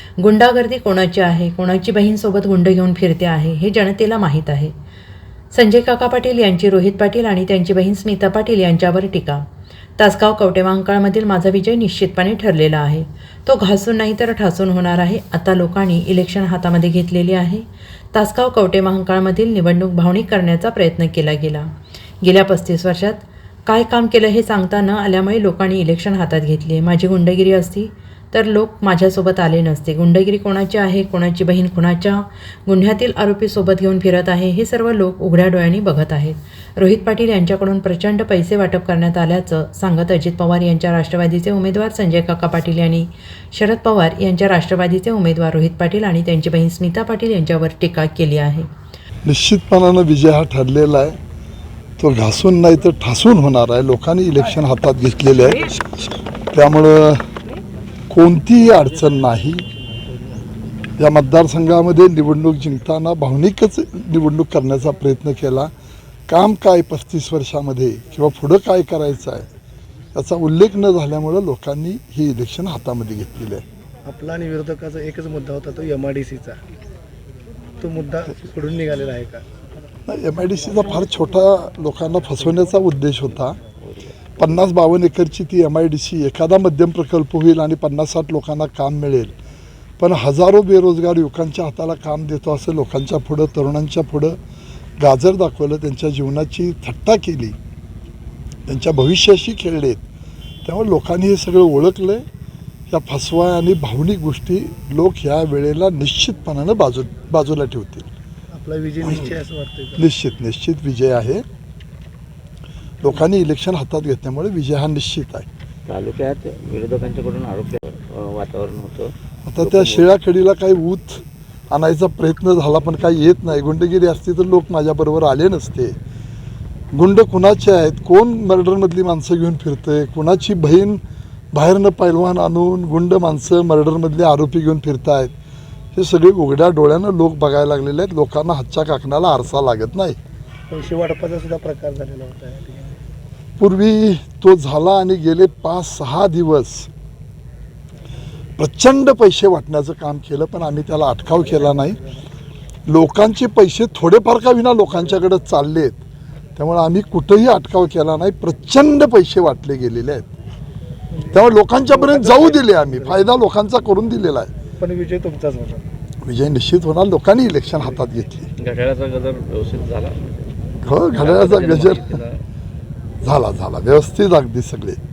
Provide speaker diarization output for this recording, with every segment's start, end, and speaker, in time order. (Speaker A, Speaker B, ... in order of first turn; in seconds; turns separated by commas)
Speaker A: 0.2-4.7, Speaker A: 5.5-9.4, Speaker A: 10.0-21.7, Speaker A: 22.2-48.7, Speaker B: 49.2-51.2, Speaker B: 52.0-55.8, Speaker B: 56.5-57.3, Speaker B: 58.1-59.6, Speaker B: 61.0-65.7, Speaker B: 66.3-69.5, Speaker B: 70.1-73.6, Speaker C: 74.0-76.6, Speaker C: 77.8-79.4, Speaker B: 80.1-83.6, Speaker D: 83.8-84.1, Speaker B: 84.4-89.3, Speaker B: 90.0-94.4, Speaker B: 95.0-97.5, Speaker B: 98.7-100.0, Speaker B: 100.6-102.2, Speaker B: 102.9-108.1, Speaker C: 108.5-110.0, Speaker B: 109.0-109.3, Speaker B: 110.0-111.4, Speaker B: 113.0-115.5, Speaker D: 115.8-120.1, Speaker B: 119.5-126.0, Speaker B: 126.9-131.0, Speaker B: 131.5-135.3, Speaker B: 135.9-140.2, Speaker C: 140.7-143.0, Speaker B: 143.6-146.9, Speaker B: 148.6-152.0, Speaker B: 152.9-156.0, Speaker B: 156.6-160.3, Speaker C: 161.1-163.2, Speaker B: 161.3-164.5, Speaker C: 164.8-165.9, Speaker B: 166.2-168.5, Speaker D: 168.6-170.5, Speaker B: 170.8-172.2, Speaker D: 171.1-172.4, Speaker B: 173.2-175.0